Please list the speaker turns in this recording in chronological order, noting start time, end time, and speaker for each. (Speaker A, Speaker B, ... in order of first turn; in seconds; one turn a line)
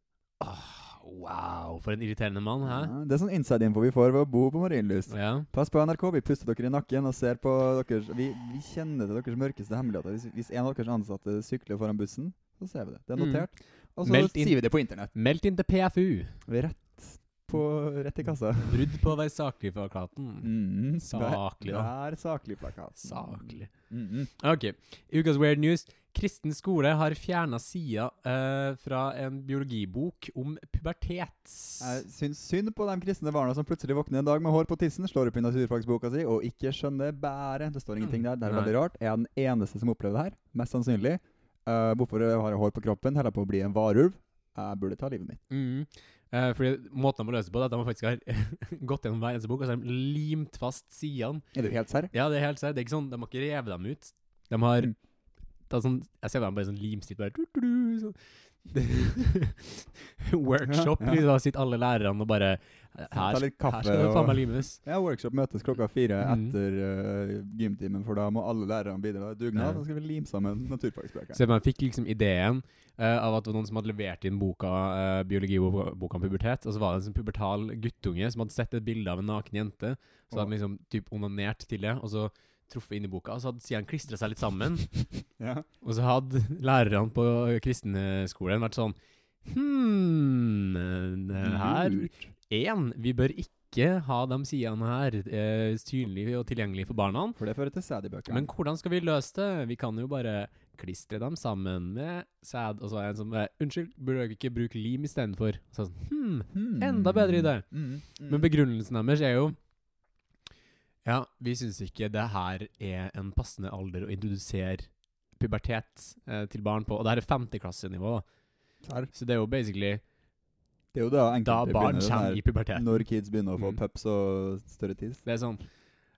Speaker A: 0.4-2.9
Speaker B: 2.6-15.1
Speaker A: 5.1-5.5
Speaker A: 13.2-13.5
Speaker A: 14.0-14.6
Speaker A: 15.1-16.4
Speaker B: 16.4-18.9
Speaker A: 18.6-20.5
Speaker B: 20.4-24.3
Speaker A: 21.0-21.9
Speaker A: 23.0-23.7
Speaker A: 24.4-32.0
Speaker B: 31.8-45.4
Speaker A: 38.0-38.7
Speaker A: 45.5-51.4
Speaker B: 51.5-52.1
Speaker A: 52.1-54.9
Speaker A: 55.7-64.8
Speaker B: 60.7-61.2
Speaker B: 63.1-71.4
Speaker A: 66.2-66.5
Speaker A: 69.5-69.8
Speaker A: 71.3-84.9
Speaker B: 85.4-85.7
Speaker A: 85.8-97.4
Speaker B: 91.4-92.3
Speaker B: 97.4-98.5
Speaker A: 98.3-107.7
Speaker B: 106.5-108.5
Speaker A: 108.2-109.6
Speaker A: 111.0-118.2
Speaker B: 118.8-119.1
Speaker A: 119.1-120.0
Speaker B: 120.9-125.2
Speaker A: 121.4-123.0
Speaker A: 125.2-125.6